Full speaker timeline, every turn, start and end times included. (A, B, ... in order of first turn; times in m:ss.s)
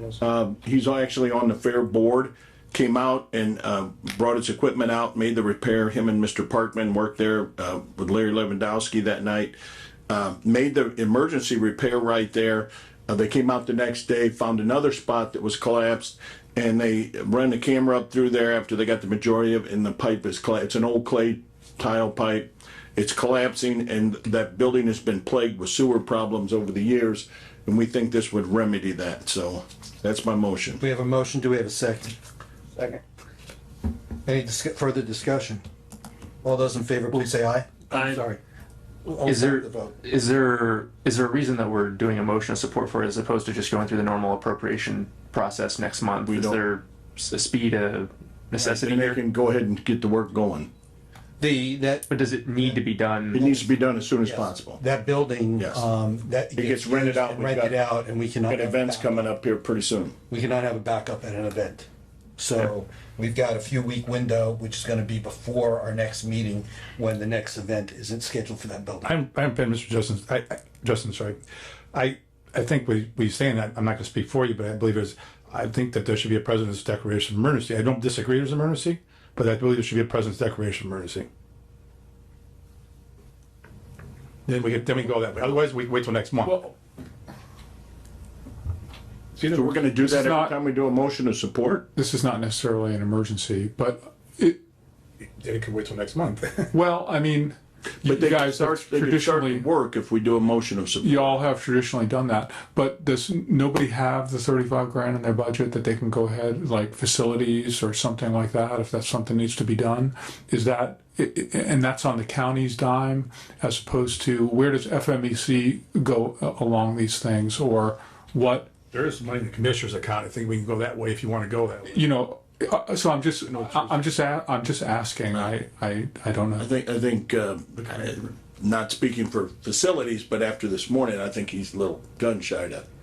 0:00.2-0:09.6 A
0:10.1-0:30.8 A
0:30.8-0:32.2 B
0:32.8-0:33.0 B
0:34.2-0:35.6 B
0:36.4-0:38.4 B
0:39.0-0:40.0 B
0:39.2-0:49.2 C
0:46.2-0:46.6 A
0:48.8-0:50.7 A
0:51.4-0:52.8 B
0:52.1-0:53.4 C
0:53.3-0:59.3 B
0:53.3-0:54.8 A
0:55.6-0:55.8 A
0:56.6-0:57.8 A
0:58.5-1:00.2 A
1:00.3-1:01.9 B
1:02.4-1:09.1 B
1:09.0-1:11.4 D
1:11.9-1:21.3 D
1:24.4-1:26.7 D
1:26.4-1:26.7 E
1:29.4-1:30.5 E
1:29.5-1:31.8 A
1:31.9-1:34.6 E
1:35.2-1:36.7 D
1:36.7-1:39.7 E
1:38.0-1:41.4 A
1:41.0-1:58.7 E
1:58.9-2:02.0 D
2:01.9-2:06.7 E
2:03.5-2:04.1 D
2:06.6-2:12.8 A